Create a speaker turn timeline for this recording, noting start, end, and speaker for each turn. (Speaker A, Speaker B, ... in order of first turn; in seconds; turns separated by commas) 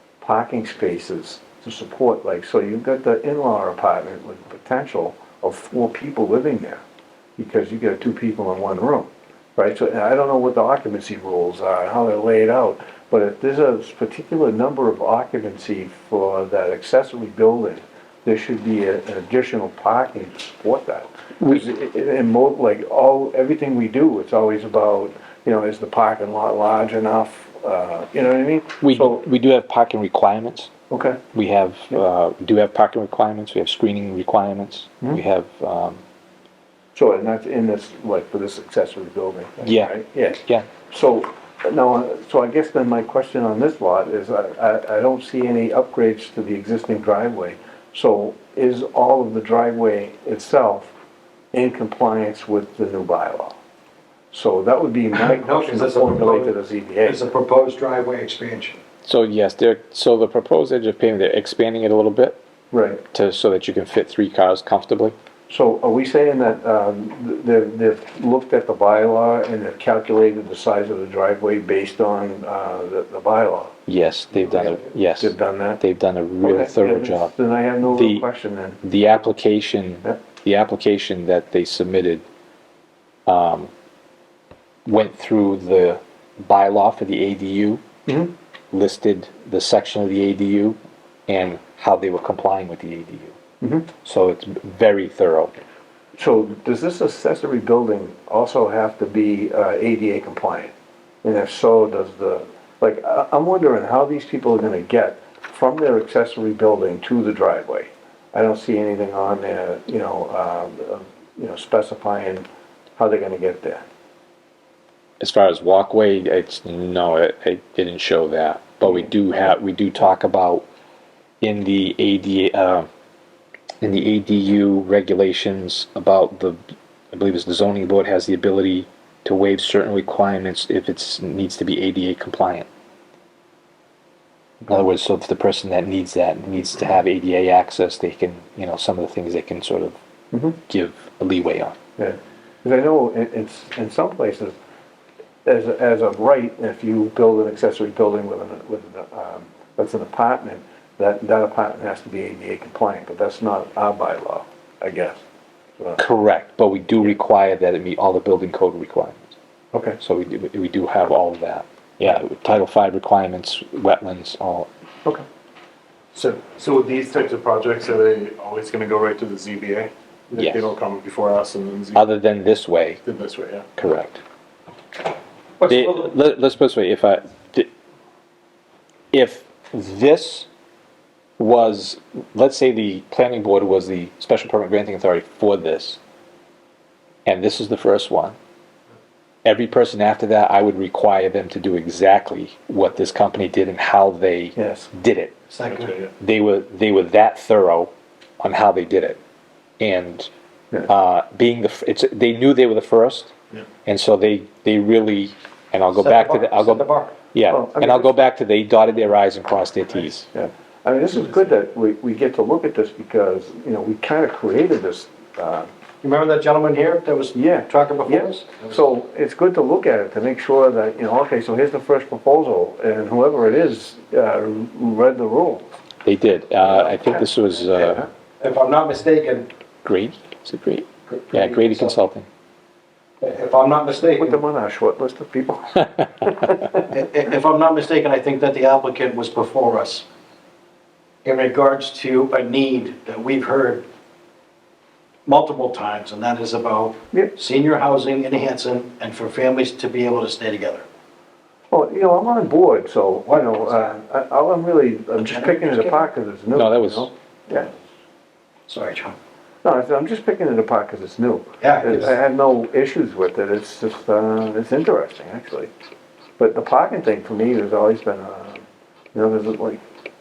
Speaker A: 0.2-6.8, Speaker A: 7.4-29.2, Speaker B: 28.8-30.7, Speaker A: 30.9-31.2, Speaker B: 31.3-36.0, Speaker A: 36.9-50.9, Speaker B: 39.6-40.7, Speaker A: 51.5-53.6, Speaker A: 54.3-57.2, Speaker C: 55.1-58.8, Speaker B: 59.0-62.4, Speaker A: 62.7-63.0, Speaker B: 63.1-65.1, Speaker A: 65.5-73.7, Speaker B: 73.9-77.3, Speaker A: 75.2-75.8, Speaker A: 76.4-78.8, Speaker B: 77.8-78.2, Speaker B: 78.8-82.2, Speaker B: 83.3-83.7, Speaker B: 84.8-87.8, Speaker A: 88.1-88.3, Speaker B: 88.7-93.4, Speaker A: 93.6-93.9, Speaker B: 94.0-95.5, Speaker A: 96.2-100.7, Speaker A: 101.2-112.5, Speaker A: 113.0-113.8, Speaker B: 115.2-120.6, Speaker B: 121.4-122.9, Speaker B: 123.8-126.6, Speaker B: 127.1-132.7, Speaker B: 134.7-140.0, Speaker B: 140.7-141.8, Speaker A: 142.0-144.6, Speaker A: 145.4-155.2, Speaker B: 156.0-159.3, Speaker A: 159.7-160.0, Speaker B: 160.0-164.7, Speaker D: 166.1-172.0, Speaker B: 170.3-170.7, Speaker B: 171.9-173.0, Speaker D: 173.0-173.7, Speaker B: 173.8-174.2, Speaker C: 175.6-176.1, Speaker B: 175.6-177.7, Speaker B: 179.1-180.5, Speaker B: 181.4-186.0, Speaker B: 187.2-188.3, Speaker B: 189.4-195.3, Speaker A: 194.6-194.9, Speaker C: 195.5-195.9, Speaker B: 196.2-199.2, Speaker B: 199.8-200.3, Speaker B: 200.9-203.3, Speaker B: 203.8-210.3, Speaker C: 205.9-207.1, Speaker A: 207.5-208.1, Speaker A: 210.3-215.7, Speaker C: 216.0-218.8, Speaker A: 217.3-225.7, Speaker B: 226.0-228.1, Speaker A: 226.7-226.9, Speaker A: 227.8-228.1, Speaker C: 228.4-229.5, Speaker B: 229.8-232.3, Speaker C: 231.1-232.0, Speaker C: 233.2-234.4, Speaker A: 234.0-236.9, Speaker C: 236.9-240.1, Speaker C: 241.2-243.8, Speaker C: 245.2-250.8, Speaker A: 251.7-257.7, Speaker C: 253.2-253.9, Speaker C: 255.2-256.1, Speaker B: 256.5-257.1, Speaker C: 258.7-259.2, Speaker A: 259.6-265.7, Speaker C: 261.6-262.1, Speaker A: 266.4-269.8